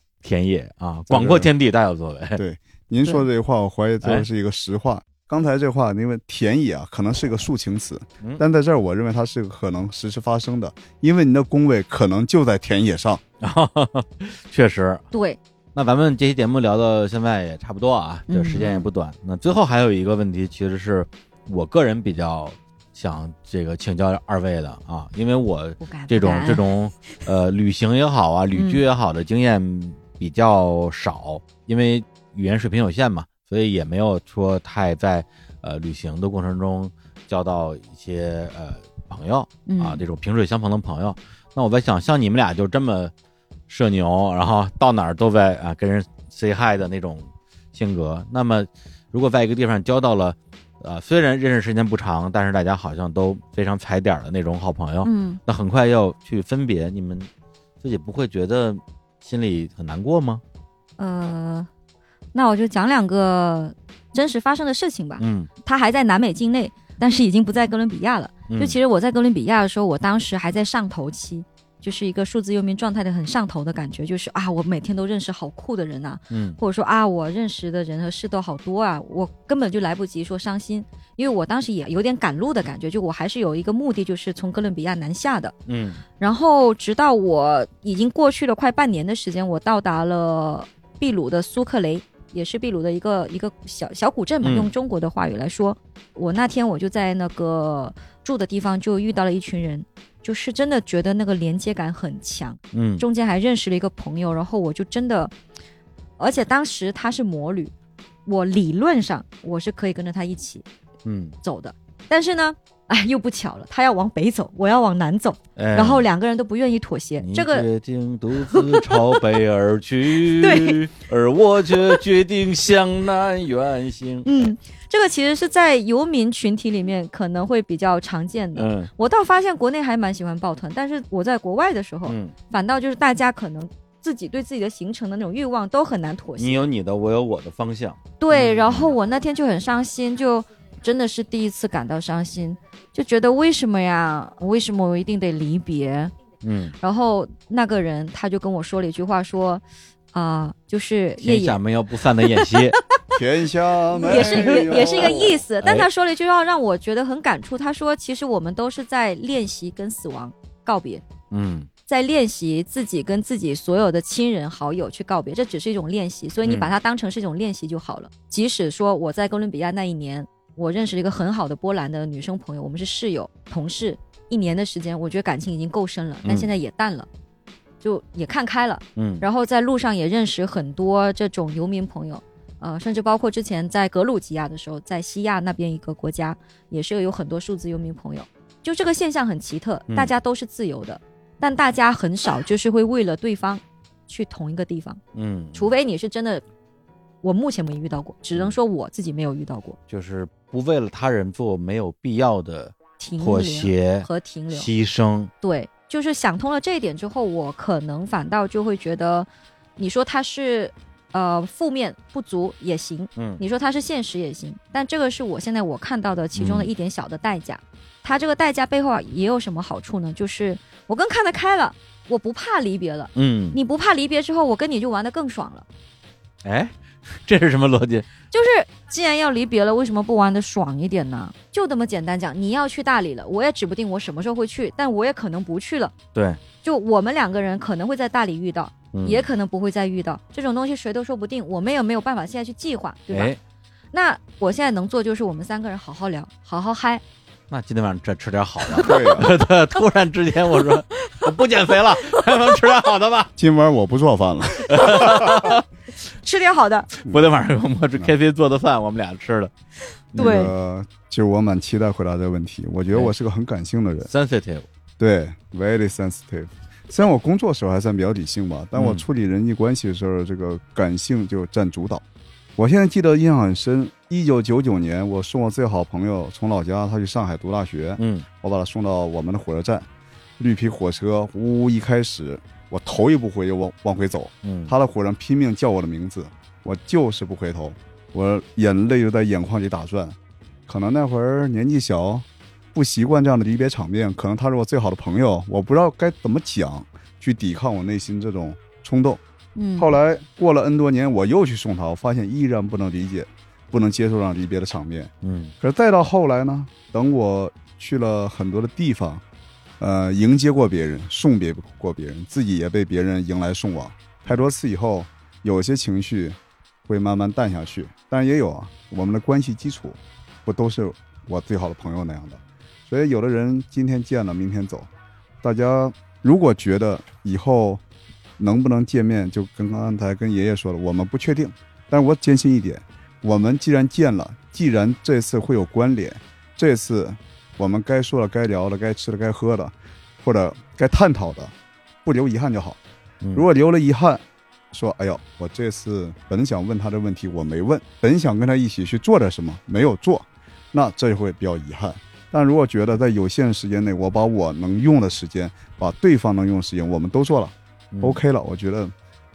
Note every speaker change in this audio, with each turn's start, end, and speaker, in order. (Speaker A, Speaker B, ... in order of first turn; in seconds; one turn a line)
Speaker A: 0.2-2.4
Speaker B: 1.1-1.5
Speaker B: 2.4-13.2
Speaker A: 13.4-15.1
Speaker C: 15.1-15.4
Speaker A: 15.7-43.1
Speaker C: 18.3-18.7
Speaker C: 25.8-26.6
Speaker C: 28.5-28.8
Speaker C: 39.6-40.0
Speaker A: 43.7-57.3
Speaker C: 55.0-55.4
Speaker A: 57.8-60.4
Speaker C: 61.0-61.7
Speaker C: 62.3-85.5
Speaker A: 65.2-65.5
Speaker A: 68.5-68.8
Speaker A: 76.3-76.6
Speaker A: 85.7-86.0
Speaker C: 86.2-105.3
Speaker A: 94.4-94.7
Speaker A: 102.7-103.0
Speaker C: 106.2-107.7
Speaker C: 108.3-110.6
Speaker A: 111.0-111.3
Speaker C: 111.4-117.7
Speaker A: 115.5-116.0
Speaker A: 117.2-124.5
Speaker C: 118.5-119.2
Speaker C: 120.4-120.8
Speaker C: 124.2-136.7
Speaker A: 128.5-128.9
Speaker A: 132.1-132.3
Speaker A: 136.4-138.9
Speaker C: 138.2-146.1
Speaker A: 146.4-146.8
Speaker C: 146.8-151.6
Speaker A: 151.2-152.8
Speaker C: 152.3-152.6
Speaker B: 153.1-155.4
Speaker C: 153.9-161.0
Speaker A: 154.1-155.9
Speaker A: 161.3-161.7
Speaker C: 161.9-177.1
Speaker A: 166.4-166.7
Speaker A: 176.2-176.5
Speaker C: 177.8-195.0
Speaker A: 178.9-179.2
Speaker A: 195.1-195.7
Speaker C: 195.5-196.4
Speaker C: 197.2-199.8
Speaker A: 199.9-205.3
Speaker C: 203.0-204.7
Speaker C: 205.4-225.6
Speaker A: 213.2-213.4
Speaker A: 216.3-216.7
Speaker A: 223.1-223.6
Speaker A: 226.4-228.1
Speaker C: 228.3-235.9
Speaker A: 236.1-236.4
Speaker C: 236.6-243.3
Speaker A: 238.9-239.3
Speaker A: 243.1-243.4
Speaker C: 243.9-247.0
Speaker A: 247.5-253.3
Speaker C: 248.7-249.2
Speaker B: 248.8-249.3
Speaker B: 253.4-255.5
Speaker A: 254.6-255.6
Speaker C: 256.2-256.9
Speaker A: 257.0-259.5
Speaker C: 260.1-260.5
Speaker B: 260.1-264.1
Speaker A: 264.1-264.7
Speaker B: 265.0-272.0
Speaker A: 268.8-269.0
Speaker B: 272.6-279.9
Speaker A: 278.0-278.2
Speaker B: 280.4-290.2
Speaker A: 284.4-284.7
Speaker B: 290.7-299.2
Speaker C: 299.6-299.9
Speaker B: 299.8-309.2
Speaker A: 305.2-305.5
Speaker B: 309.8-324.9
Speaker B: 325.4-327.8
Speaker B: 328.4-341.5
Speaker B: 342.0-342.8
Speaker B: 343.3-358.9
Speaker A: 357.9-358.2